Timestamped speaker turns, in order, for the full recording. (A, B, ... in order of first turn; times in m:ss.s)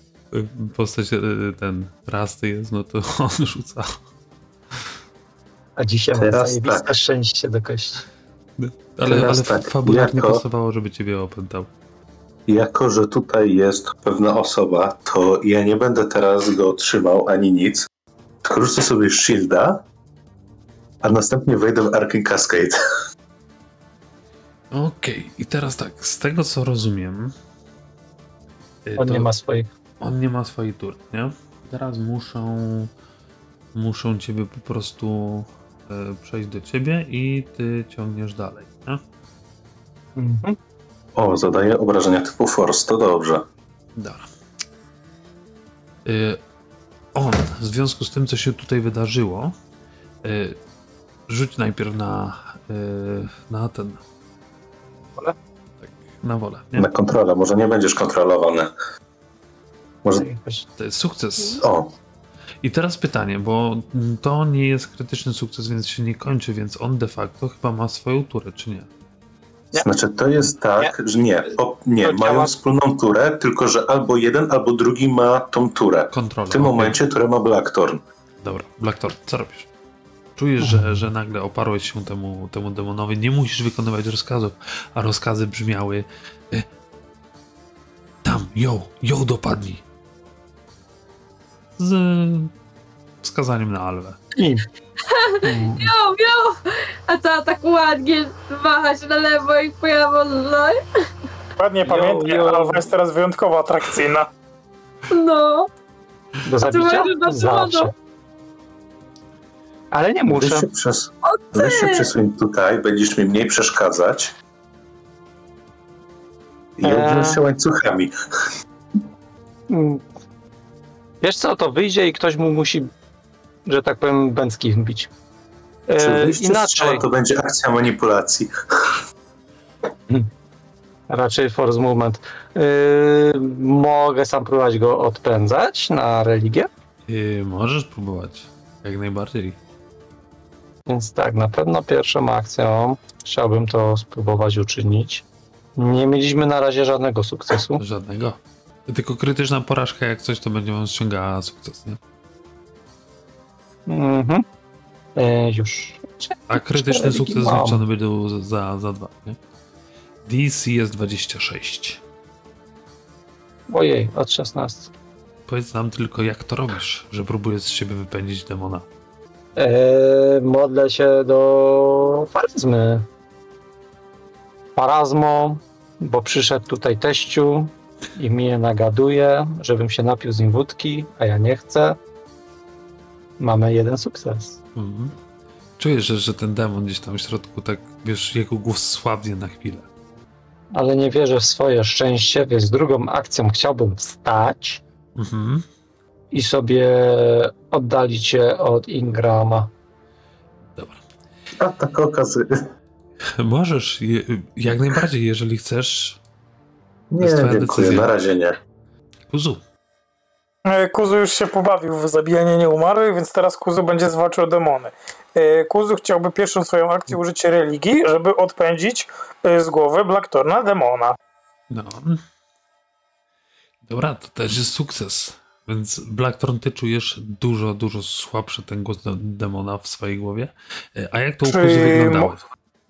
0:00.3-0:04.0 A
0:05.8-0:08.1 B
0:06.2-0:06.9 C
0:08.6-0:11.7 A
0:09.0-0:10.4 C
0:12.5-0:17.9 C
0:18.4-0:19.8 C
0:21.0-0:22.8 C
0:24.7-0:27.4 A
0:28.9-0:29.3 A
0:29.0-0:29.7 B
0:30.0-0:32.9 A
0:33.8-0:39.0 A
0:40.2-0:40.6 B
0:41.2-0:43.4 C
0:44.0-0:44.3 A
0:46.0-0:46.4 A
0:47.1-0:49.5 A
0:50.2-0:50.6 A
0:51.3-0:54.0 A
0:55.8-0:56.9 A
0:56.8-0:58.7 C
1:00.2-1:00.7 B
1:00.8-1:01.6 A
1:01.6-1:01.9 C
1:02.6-1:08.9 A
1:09.8-1:18.0 C
1:12.0-1:12.6 B
1:16.1-1:17.0 A
1:18.4-1:19.7 A
1:20.4-1:26.7 A
1:20.6-1:21.1 B
1:28.2-1:29.8 A
1:31.8-1:32.5 A
1:33.2-1:34.2 A
1:34.4-1:34.6 B
1:35.1-1:40.8 D
1:35.4-1:35.9 B
1:41.6-1:44.3 E
1:41.8-1:42.9 B
1:45.1-1:45.7 D
1:46.4-1:47.9 B
1:46.7-1:47.9 D
1:49.9-1:50.7 B
1:50.3-1:54.3 C
1:51.2-1:52.1 D
1:56.8-1:58.1 C
1:56.8-1:57.4 B
1:59.7-2:00.0 B
2:01.2-2:02.9 B
2:03.7-2:05.1 B
2:05.9-2:07.1 B
2:06.0-2:09.0 C
2:11.1-2:16.7 B
2:17.1-2:19.6 A
2:20.9-2:25.2 B
2:25.8-2:27.8 B
2:27.8-2:32.0 A
2:33.9-2:34.4 B
2:35.2-2:37.8 B
2:36.5-2:39.4 A
2:40.2-2:42.0 A
2:43.7-2:44.9 B
2:45.5-2:48.9 A
2:49.6-2:53.1 B
2:54.8-3:02.0 B
3:03.4-3:04.6 B
3:04.8-3:05.2 A
3:05.8-3:09.9 A
3:10.7-3:14.8 B
3:15.2-3:15.6 A
3:16.3-3:19.7 B
3:20.8-3:21.0 A
3:21.6-3:22.5 C
3:23.4-3:26.2 A
3:27.1-3:28.6 C
3:27.2-3:28.1 A
3:29.3-3:29.6 A
3:30.7-3:41.2 E
3:41.7-3:42.2 A
3:43.9-3:52.4 A
3:51.4-3:52.3 E